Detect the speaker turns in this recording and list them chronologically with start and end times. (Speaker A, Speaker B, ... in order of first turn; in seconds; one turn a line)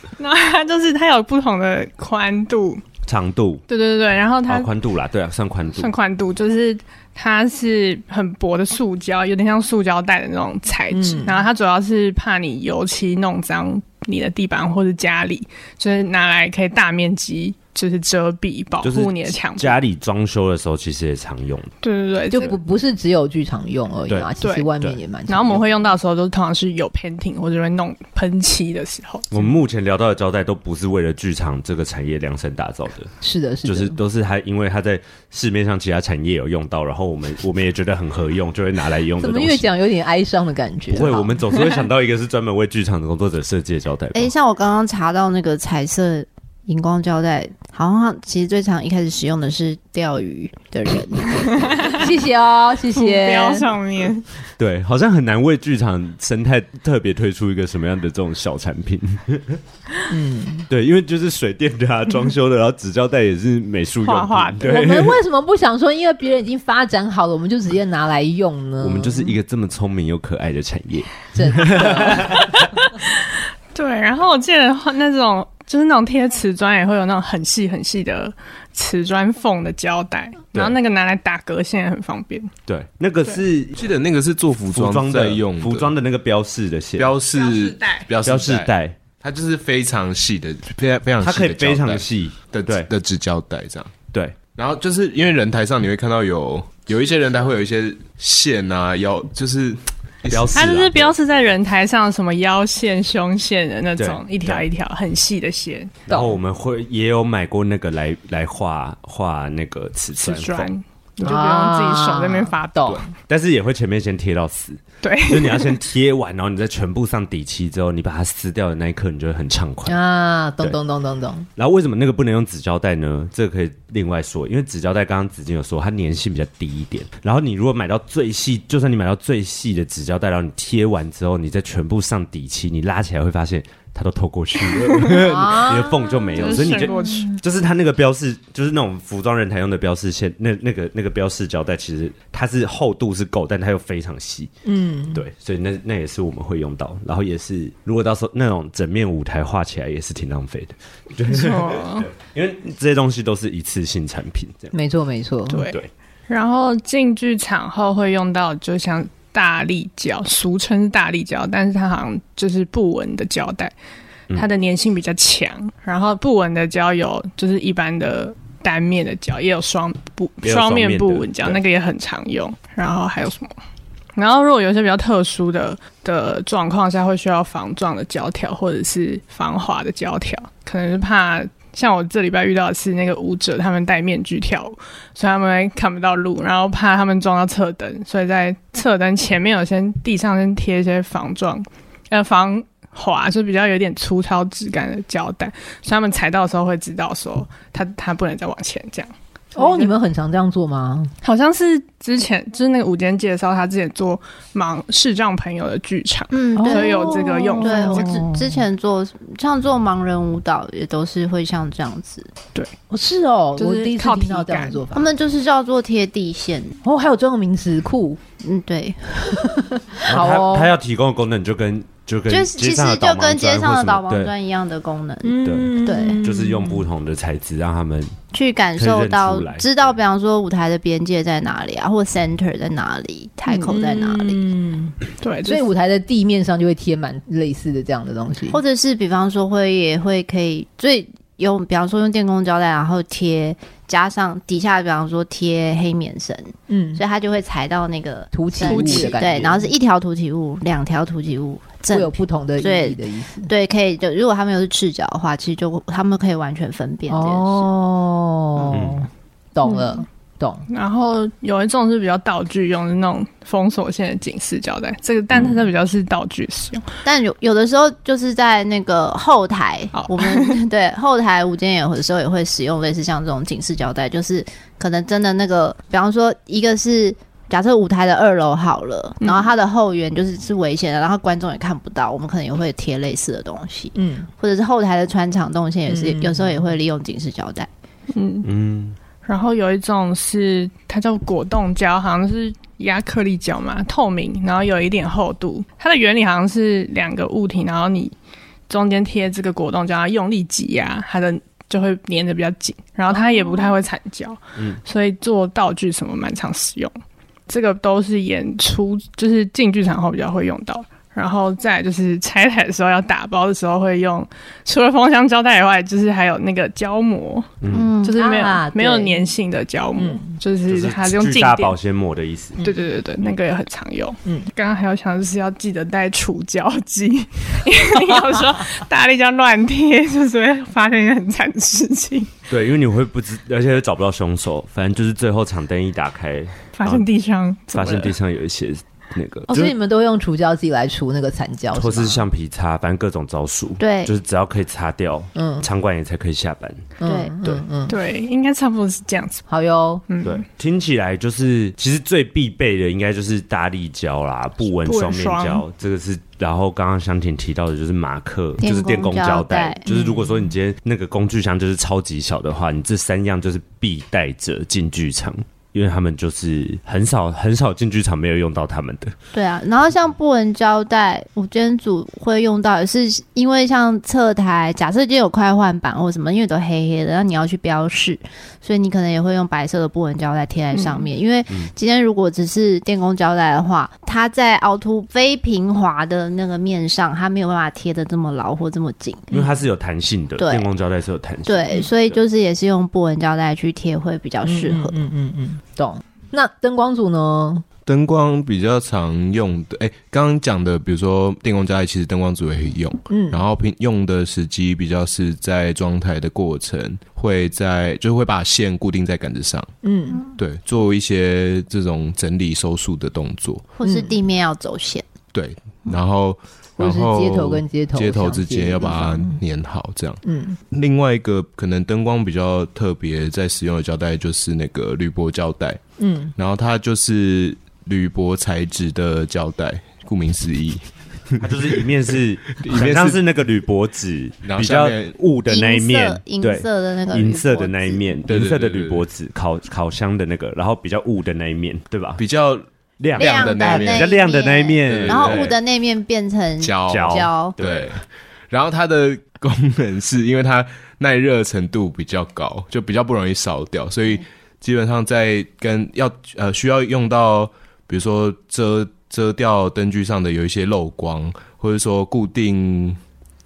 Speaker A: 0.2-2.8
Speaker B: 3.1-3.6
Speaker A: 3.7-4.7
Speaker B: 4.5-5.9
Speaker A: 5.7-19.8
Speaker C: 10.9-11.5
Speaker B: 18.8-21.7
Speaker A: 21.8-22.6
Speaker C: 22.3-25.6
Speaker B: 24.1-25.0
Speaker A: 24.4-24.7
Speaker A: 25.3-29.3
Speaker B: 29.3-33.1
Speaker C: 33.2-34.0
Speaker B: 33.6-39.7
Speaker C: 39.2-41.6
Speaker B: 40.9-44.3
Speaker D: 44.1-51.7
Speaker A: 51.6-52.0
Speaker C: 52.0-53.7
Speaker A: 53.0-54.3
Speaker B: 54.6-59.6
Speaker C: 60.1-60.7
Speaker B: 60.7-65.2
Speaker A: 64.0-64.7
Speaker C: 64.6-69.4
Speaker B: 68.8-72.6
Speaker C: 71.3-72.4
Speaker A: 72.4-82.5
Speaker B: 82.7-83.9
Speaker E: 83.8-85.9
Speaker B: 84.7-87.2
Speaker E: 87.0-94.0
Speaker A: 87.3-88.1
Speaker B: 88.2-89.0
Speaker B: 91.2-92.9
Speaker E: 94.5-100.7
Speaker B: 100.3-101.2
Speaker A: 100.5-106.0
Speaker B: 104.0-104.6
Speaker B: 106.1-110.7
Speaker C: 106.1-106.3
Speaker A: 110.2-113.0
Speaker C: 111.2-113.1
Speaker B: 113.3-120.0
Speaker A: 115.0-115.8
Speaker C: 119.9-121.5
Speaker B: 121.6-144.5
Speaker C: 135.2-137.2
Speaker A: 136.4-137.4
Speaker C: 144.7-145.2
Speaker B: 145.1-154.8
Speaker A: 151.3-152.1
Speaker C: 154.7-155.6
Speaker A: 155.5-155.8
Speaker A: 156.3-163.7
Speaker A: 164.3-173.6
Speaker B: 170.4-171.6
Speaker A: 174.2-199.9
Speaker C: 199.6-201.1
Speaker A: 201.2-208.3
Speaker D: 206.3-212.3
Speaker C: 206.6-208.5
Speaker C: 212.9-215.1
Speaker A: 213.6-214.8
Speaker D: 214.9-216.8
Speaker C: 216.8-218.2
Speaker D: 218.4-219.4
Speaker C: 219.4-220.7
Speaker B: 220.1-224.3
Speaker D: 222.3-226.2
Speaker C: 225.2-226.9
Speaker B: 225.4-228.2
Speaker D: 228.3-234.4
Speaker B: 228.8-229.9
Speaker C: 233.5-238.6
Speaker A: 235.2-235.6
Speaker D: 238.5-257.7
Speaker C: 246.7-247.0
Speaker C: 248.3-249.7
Speaker A: 248.7-249.1
Speaker C: 251.9-253.5
Speaker C: 257.1-260.7
Speaker B: 258.7-259.1
Speaker A: 260.7-266.9
Speaker D: 267.0-287.7
Speaker A: 269.9-270.6
Speaker A: 279.2-279.5
Speaker C: 283.9-284.3
Speaker C: 285.9-286.6
Speaker A: 288.1-288.5
Speaker B: 288.4-289.0
Speaker A: 289.2-298.1
Speaker A: 298.7-306.9
Speaker A: 307.5-321.8
Speaker B: 317.6-317.9
Speaker D: 317.7-318.2
Speaker C: 318.2-319.2
Speaker C: 320.0-320.4
Speaker B: 320.7-322.6
Speaker A: 322.6-332.3
Speaker C: 324.2-324.5
Speaker B: 332.5-337.1
Speaker A: 336.8-338.1
Speaker B: 337.7-339.7
Speaker C: 339.5-342.2
Speaker B: 341.8-346.8
Speaker D: 343.8-344.1
Speaker C: 345.4-345.7
Speaker C: 347.0-348.0
Speaker D: 347.1-347.4
Speaker A: 347.9-349.5
Speaker C: 349.5-350.0
Speaker A: 350.1-350.4
Speaker B: 350.2-369.1
Speaker A: 354.8-355.6
Speaker D: 358.6-359.8
Speaker C: 359.9-360.4
Speaker D: 369.3-389.3
Speaker A: 380.8-381.1
Speaker B: 389.3-392.2
Speaker D: 390.4-390.7
Speaker D: 391.5-395.0
Speaker C: 394.4-397.6
Speaker E: 397.9-409.7
Speaker C: 403.1-403.4
Speaker C: 409.8-410.2
Speaker E: 410.4-413.7
Speaker D: 413.8-415.1
Speaker C: 413.8-414.1
Speaker E: 415.3-425.8
Speaker C: 416.8-419.4
Speaker C: 420.2-420.6
Speaker C: 426.0-426.3
Speaker E: 426.4-431.9
Speaker B: 431.4-442.2
Speaker E: 432.5-433.2
Speaker E: 434.4-435.1
Speaker D: 435.5-438.1
Speaker E: 438.3-439.1
Speaker E: 442.2-444.1
Speaker B: 443.0-445.5
Speaker D: 443.2-447.6
Speaker E: 444.9-445.6
Speaker E: 446.6-463.0
Speaker B: 446.9-447.9